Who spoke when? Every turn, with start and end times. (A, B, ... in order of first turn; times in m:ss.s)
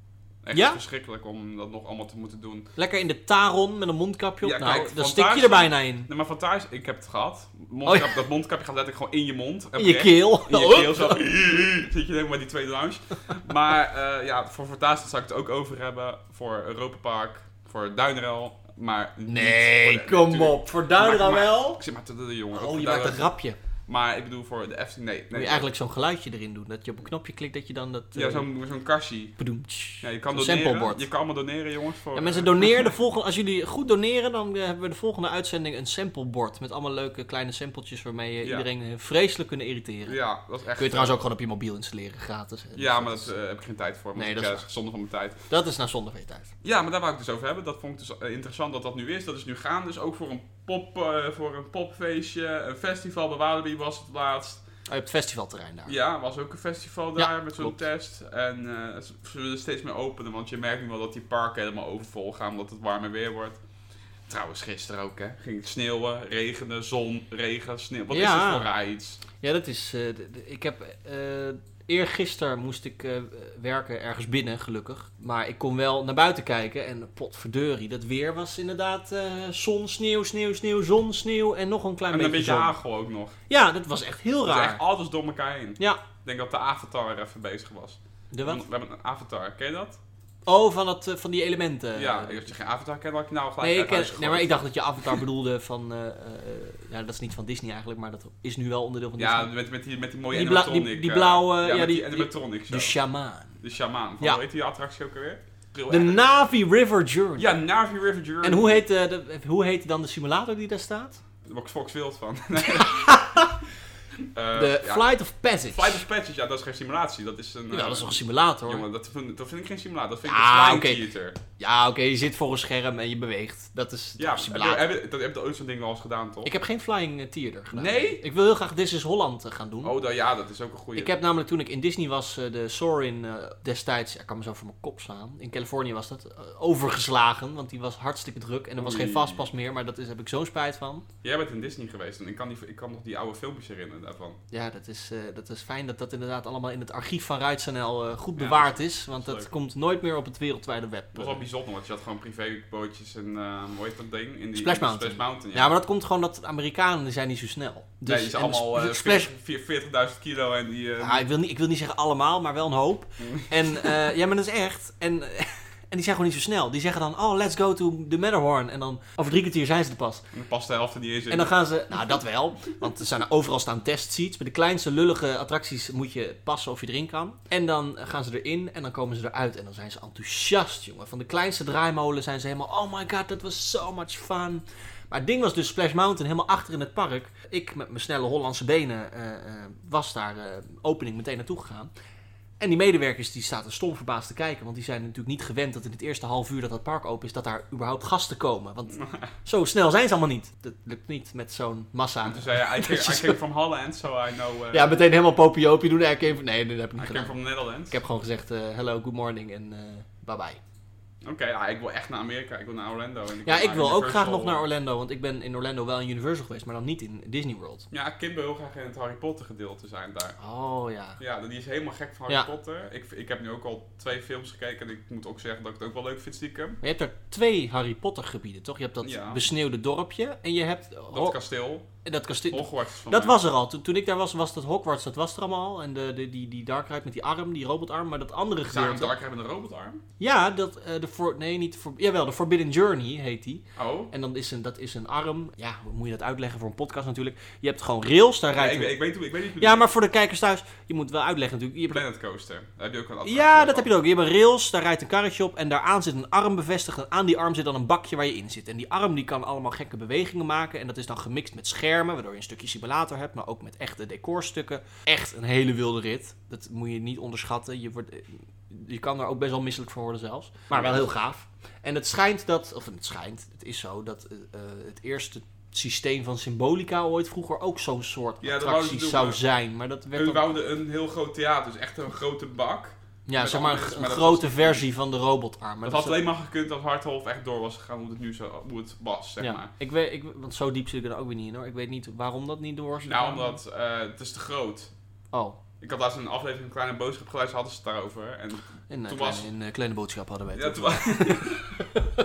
0:00.4-0:02.7 A
0:00.5-0:00.8 B
0:02.8-0:06.1 B
0:04.4-0:23.3 A
0:07.8-0:08.2 B
0:09.8-0:11.2 B
0:19.3-0:21.8 B
0:22.5-0:23.6 B
0:23.9-0:25.7 A
0:25.3-0:28.5 B
0:28.1-0:29.4 A
0:29.4-0:31.0 B
0:30.0-0:32.9 A
0:32.1-0:40.2 B
0:38.4-0:38.7 A
0:40.1-0:41.2 A
0:40.8-0:43.3 B
0:42.8-0:45.4 A
0:44.2-0:44.6 B
0:45.5-0:46.5 B
0:46.6-0:54.6 A
0:54.9-0:55.9 B
0:55.8-1:03.6 A
0:57.2-0:57.8 B
1:04.3-1:09.2 A
1:08.1-1:08.7 B
1:09.4-1:22.8 B
1:22.1-1:23.4 A
1:23.5-1:24.8 B
1:24.4-1:30.0 A
1:28.3-1:28.6 B
1:30.4-1:32.5 B
1:31.9-1:35.2 A
1:33.6-1:39.5 B
1:39.2-1:43.0 A
1:40.3-1:43.6 B
1:43.6-1:46.2 A
1:45.9-1:47.5 B
1:47.4-1:48.8 A
1:48.4-1:51.2 B
1:51.4-1:53.2 A
1:52.7-1:53.5 B
1:54.3-1:55.1 A
1:54.6-1:56.0 B
1:55.7-2:01.4 A
1:57.7-1:58.8 B
2:00.2-2:01.0 B
2:01.6-2:04.8 B
2:04.2-2:06.5 A
2:06.4-2:10.0 B
2:07.7-2:08.2 A
2:09.8-2:11.2 A
2:10.9-2:21.0 B
2:18.8-2:19.5 A
2:21.2-2:24.4 A
2:24.5-2:31.4 B
2:28.4-2:29.5 A
2:31.1-2:35.7 A
2:34.6-2:39.3 B
2:38.0-2:41.2 A
2:41.0-2:50.2 B
2:43.2-2:43.9 A
2:50.3-2:51.5 A
2:51.3-3:11.9 B
3:12.6-3:23.4 B
3:18.9-3:19.3 A
3:22.2-3:24.9 A
3:24.7-3:27.4 B
3:27.0-3:28.0 A
3:27.9-3:30.6 B
3:31.2-3:34.6 A
3:33.4-3:37.9 B
3:37.9-3:40.4 A
3:40.4-3:41.2 B
3:41.2-3:46.8 A
3:46.8-3:51.4 B
3:49.0-3:49.4 A
3:51.1-3:51.9 A
3:52.0-3:59.1 B
3:52.5-3:53.4 A
3:58.7-4:00.0 A
4:00.2-4:09.0 B
4:03.8-4:04.1 A
4:08.6-4:09.9 A
4:09.6-4:12.0 B
4:11.9-4:13.9 A
4:13.2-4:40.5 B
4:30.7-4:31.1 A
4:38.4-4:39.4 A
4:40.1-4:44.8 A
4:43.3-4:46.2 B
4:45.8-4:49.7 A
4:49.4-4:53.6 B
4:53.0-4:54.9 A
4:55.3-4:55.6 B
4:55.8-4:59.5 A
4:58.9-5:02.0 B
5:00.5-5:01.6 A